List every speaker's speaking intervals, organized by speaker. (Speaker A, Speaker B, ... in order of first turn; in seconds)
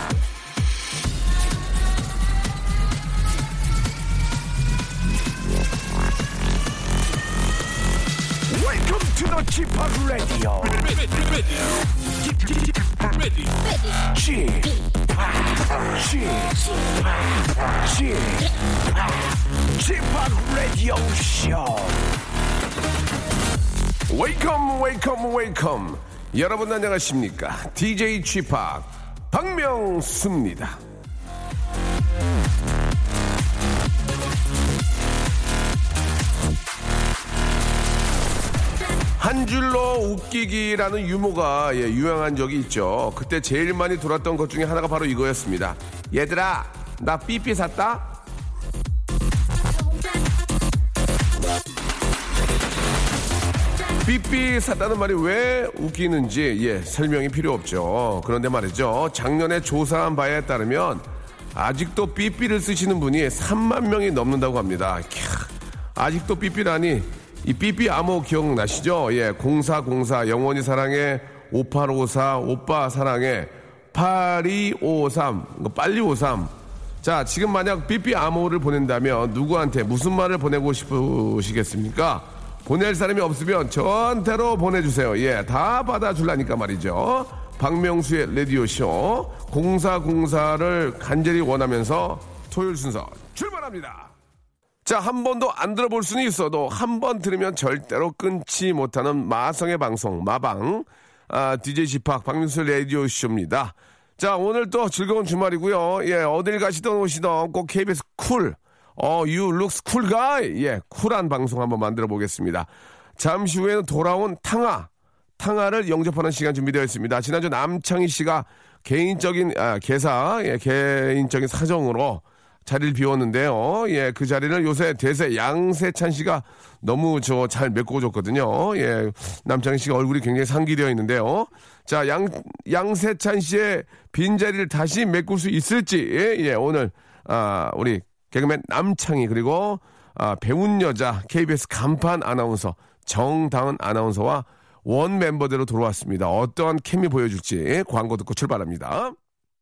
Speaker A: 8.5-11.2, 13.0-13.2, 14.0-22.2, 24.1-30.8, 39.2-48.2, 54.0-94.1, 94.8-149.2